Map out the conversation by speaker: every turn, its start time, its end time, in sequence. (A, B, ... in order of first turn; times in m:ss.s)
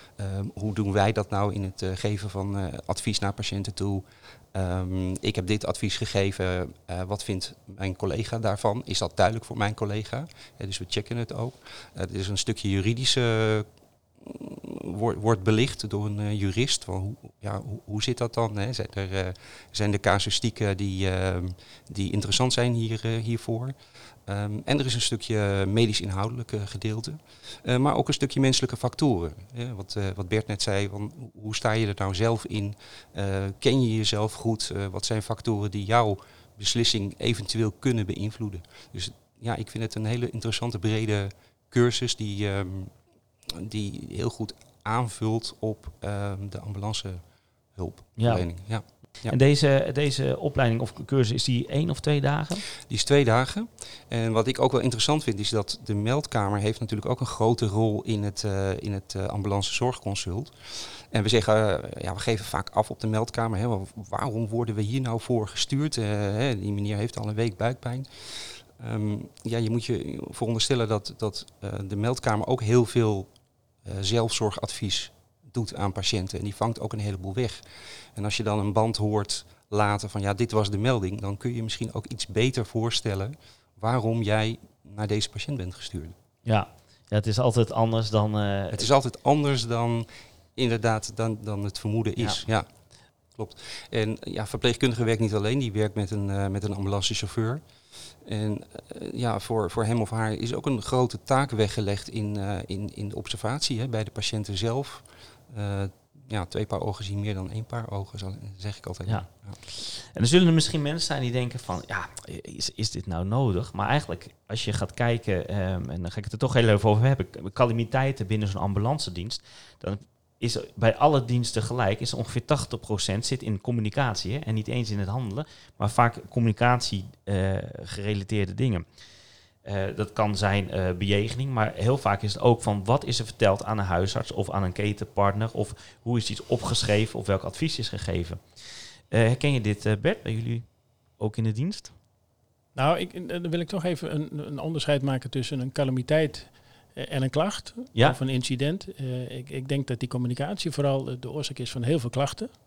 0:00.2-0:13.7 A
0:14.2-0:43.0 A
0:43.5-0:49.4 A
0:48.2-0:52.7 B
0:52.9-1:13.3 A
1:13.8-1:17.6 A
1:18.1-1:26.2 A
1:26.4-1:28.9 B
1:28.7-1:32.7 A
1:33.4-1:37.6 A
1:38.2-1:49.6 A
1:49.1-2:08.8 B
2:09.6-2:18.4 B
2:19.1-2:20.7 B
2:21.2-2:21.9 B
2:22.8-2:32.5 C